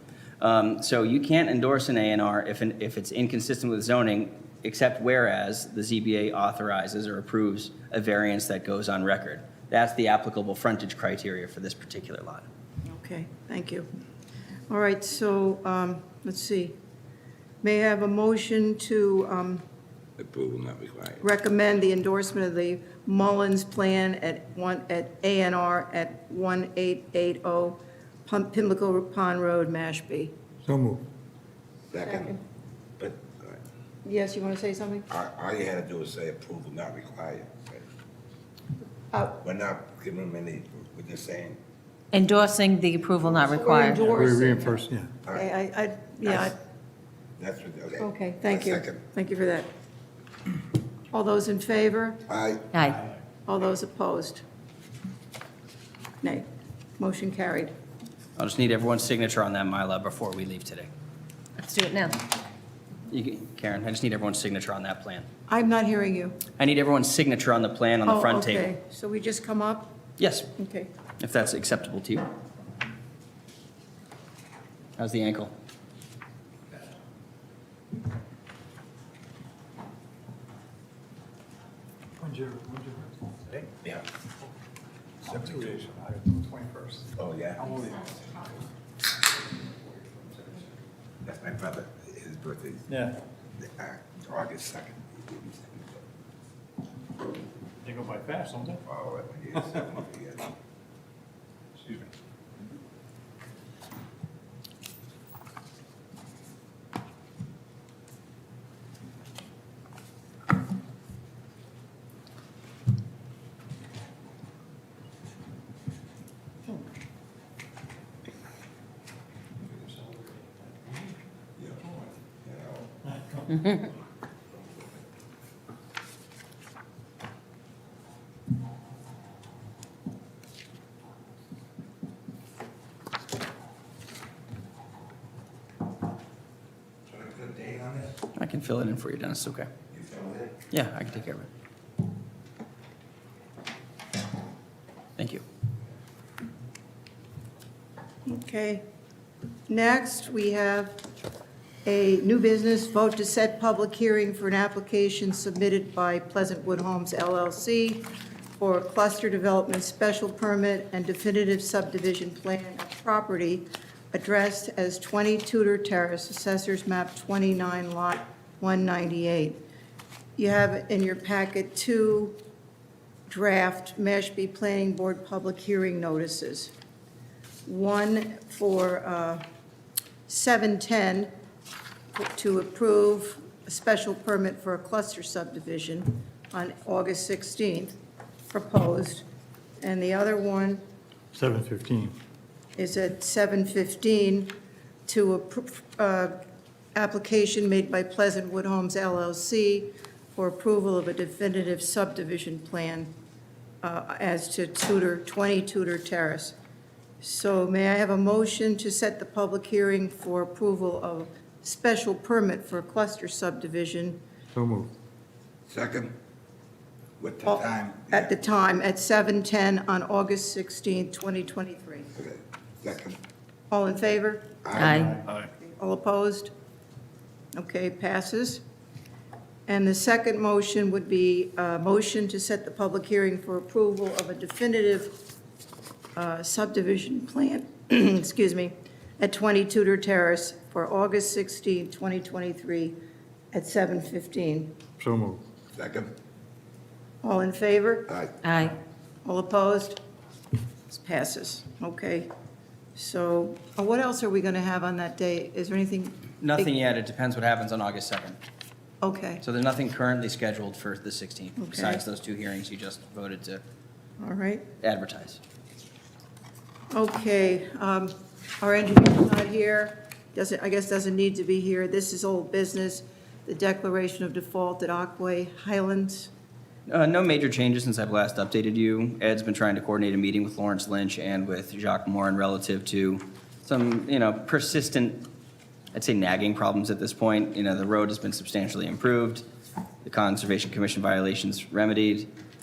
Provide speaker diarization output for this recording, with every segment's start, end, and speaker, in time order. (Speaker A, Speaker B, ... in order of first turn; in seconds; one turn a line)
Speaker A: 0.4-12.5
Speaker B: 12.9-13.9
Speaker B: 14.7-16.7
Speaker B: 17.6-19.6
Speaker C: 20.2-21.2
Speaker B: 21.2-30.3
Speaker D: 30.6-31.0
Speaker C: 31.9-32.4
Speaker B: 32.0-32.4
Speaker C: 33.0-33.6
Speaker B: 34.0-35.1
Speaker C: 35.1-37.8
Speaker C: 39.4-41.6
Speaker E: 42.1-44.0
Speaker B: 43.5-44.8
Speaker D: 44.0-45.1
Speaker B: 45.3-46.5
Speaker C: 47.4-49.0
Speaker B: 48.0-49.7
Speaker B: 51.1-52.2
Speaker C: 52.3-52.7
Speaker E: 52.7-53.0
Speaker B: 53.5-54.4
Speaker B: 57.0-57.7
Speaker A: 58.4-60.9
Speaker E: 61.6-62.2
Speaker A: 63.1-65.3
Speaker B: 65.5-66.4
Speaker A: 66.6-68.7
Speaker B: 68.1-70.0
Speaker A: 70.2-70.5
Speaker B: 70.6-70.9
Speaker A: 71.2-72.3
Speaker A: 75.0-75.5
Speaker D: 82.2-83.7
Speaker D: 85.2-88.1
Speaker C: 87.2-88.1
Speaker C: 91.2-92.9
Speaker D: 92.9-93.2
Speaker C: 93.6-96.0
Speaker D: 97.8-98.8
Speaker C: 98.8-100.5
Speaker D: 119.7-121.1
Speaker C: 121.6-122.9
Speaker C: 124.5-125.0
Speaker C: 137.1-138.2
Speaker A: 138.3-139.7
Speaker C: 139.9-140.6
Speaker A: 140.7-141.5
Speaker A: 145.2-145.4
Speaker B: 148.2-148.8
Speaker B: 149.7-151.0
Speaker B: 151.8-158.1
Speaker B: 158.6-169.6
Speaker B: 170.4-172.4
Speaker B: 173.3-176.7
Speaker B: 177.7-179.4
Speaker B: 180.3-181.3
Speaker B: 182.2-188.0
Speaker B: 188.5-189.2
Speaker B: 189.8-190.8
Speaker D: 191.3-192.2
Speaker B: 192.8-194.5
Speaker B: 195.1-196.4
Speaker B: 196.9-203.1
Speaker B: 203.8-206.6
Speaker B: 207.2-214.2
Speaker D: 214.5-214.9
Speaker C: 215.7-216.1
Speaker C: 217.2-218.3
Speaker B: 217.4-222.1
Speaker C: 222.2-223.2
Speaker B: 223.7-224.6
Speaker C: 224.6-225.2
Speaker E: 224.7-225.2
Speaker D: 224.9-225.5
Speaker B: 225.6-226.5
Speaker B: 227.5-228.6
Speaker B: 229.7-235.2
Speaker B: 236.2-243.0
Speaker B: 243.5-244.7
Speaker D: 245.0-245.4
Speaker C: 245.7-246.1
Speaker B: 247.2-248.1
Speaker E: 248.4-248.8
Speaker B: 249.2-250.0
Speaker B: 250.9-252.3
Speaker B: 253.0-256.7
Speaker A: 256.4-258.4
Speaker B: 259.0-259.4
Speaker A: 259.4-263.6
Speaker B: 261.6-262.0
Speaker B: 264.2-264.6
Speaker A: 264.8-265.4
Speaker B: 266.9-276.3
Speaker A: 276.9-285.3
Speaker A: 285.9-289.4
Speaker A: 290.0-292.3